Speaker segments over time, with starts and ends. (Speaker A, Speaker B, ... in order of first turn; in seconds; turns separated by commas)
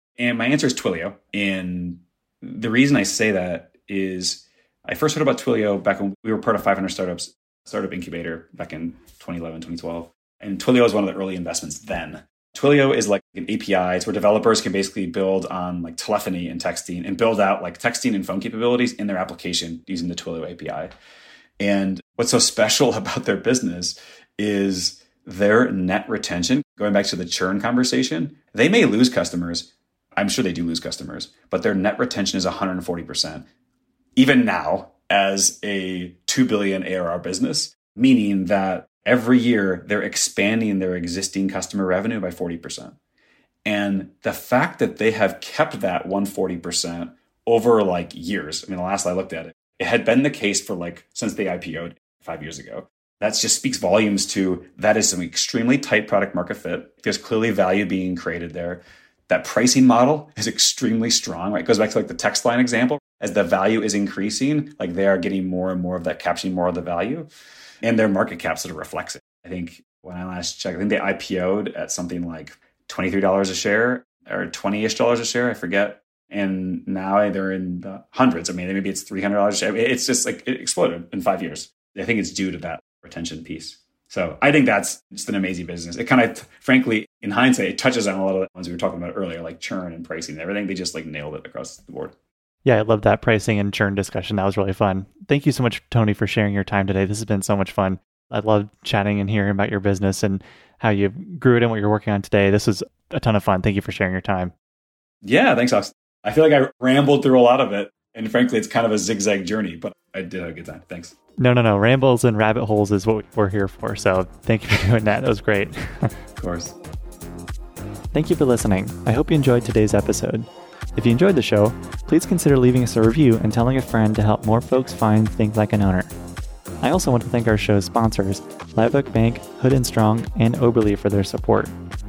Speaker A: 0.2-20.9, Speaker A: 21.6-33.5, Speaker A: 34.2-43.0, Speaker A: 43.7-67.3, Speaker A: 67.8-92.2, Speaker B: 92.7-104.5, Speaker A: 105.2-111.2, Speaker B: 111.4-116.1, Speaker A: 116.4-116.8, Speaker B: 118.1-126.1, Speaker B: 126.8-131.7